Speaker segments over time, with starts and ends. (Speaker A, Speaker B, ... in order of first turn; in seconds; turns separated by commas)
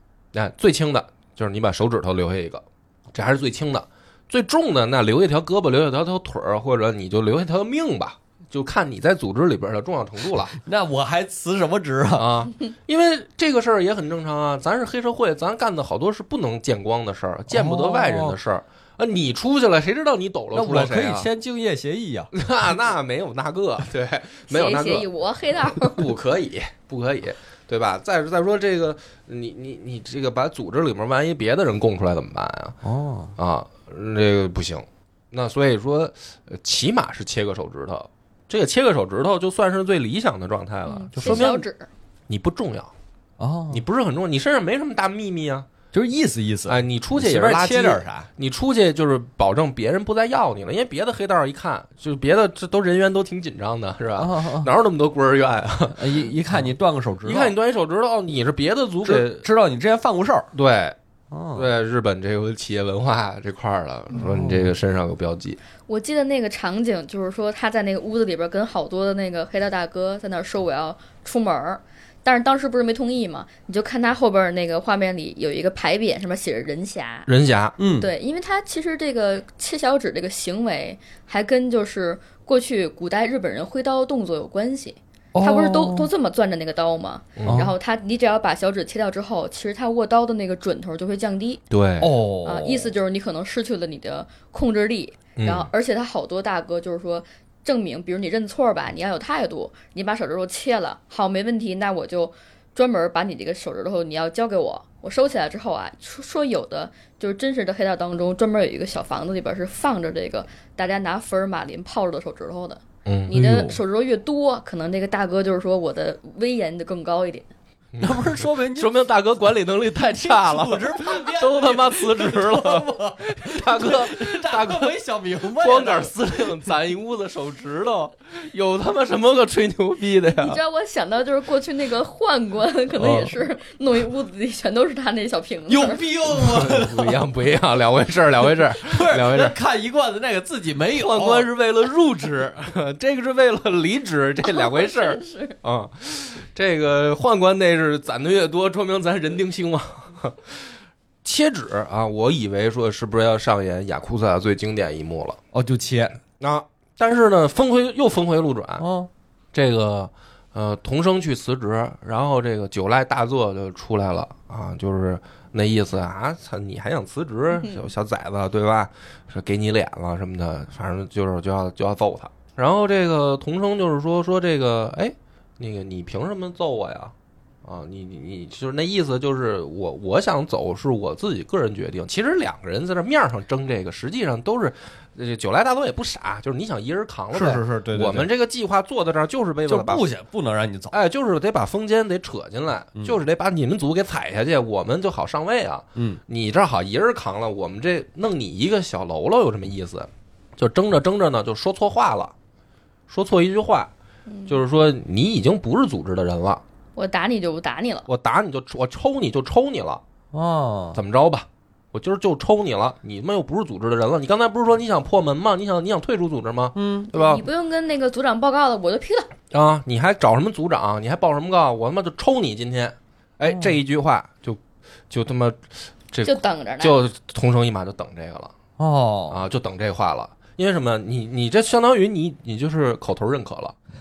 Speaker A: 0.3-10.6, Speaker B: 10.6-12.3, Speaker A: 12.2-21.3, Speaker B: 17.5-18.4, Speaker B: 20.5-22.3, Speaker A: 22.3-25.1, Speaker C: 24.5-26.1, Speaker A: 25.6-32.8, Speaker B: 32.8-33.3, Speaker A: 33.4-41.6, Speaker C: 40.9-41.9, Speaker B: 41.2-41.5, Speaker A: 42.3-42.9, Speaker B: 43.4-43.9, Speaker A: 43.7-45.7, Speaker B: 45.9-48.3, Speaker A: 46.7-56.3, Speaker B: 54.2-54.7, Speaker B: 55.9-57.5, Speaker A: 57.2-59.5, Speaker B: 59.0-60.5, Speaker A: 60.5-61.0, Speaker B: 61.3-61.7, Speaker A: 61.5-65.6, Speaker B: 64.1-64.7, Speaker C: 65.9-77.3, Speaker A: 77.3-77.8, Speaker B: 77.8-78.1, Speaker C: 77.9-91.6, Speaker B: 85.3-86.1, Speaker A: 87.4-87.7, Speaker B: 87.4-87.7, Speaker A: 91.7-92.1, Speaker B: 92.0-92.9, Speaker C: 92.4-117.5, Speaker A: 95.4-95.7, Speaker A: 113.0-113.4, Speaker B: 113.3-113.8, Speaker A: 117.9-125.0, Speaker B: 118.0-118.9, Speaker B: 120.0-126.7, Speaker A: 125.5-130.6, Speaker C: 130.3-136.0, Speaker A: 133.0-133.3, Speaker B: 135.7-137.2, Speaker A: 136.3-139.6, Speaker B: 138.5-141.5, Speaker A: 140.9-150.7, Speaker C: 144.4-145.6, Speaker A: 151.2-155.4, Speaker B: 155.5-156.2, Speaker A: 156.4-158.8, Speaker B: 158.8-159.1, Speaker A: 159.5-177.1, Speaker A: 177.6-190.1, Speaker B: 187.3-188.3, Speaker B: 189.7-190.9, Speaker A: 190.9-202.3, Speaker A: 203.1-203.9, Speaker C: 204.3-204.6, Speaker A: 204.5-206.6, Speaker C: 206.9-208.1, Speaker A: 208.1-210.0, Speaker B: 210.3-211.0, Speaker A: 210.9-217.4, Speaker B: 216.7-217.1, Speaker C: 217.1-219.3, Speaker A: 219.5-228.5, Speaker B: 223.4-223.8, Speaker C: 226.2-227.0, Speaker B: 228.8-229.4, Speaker A: 229.3-233.8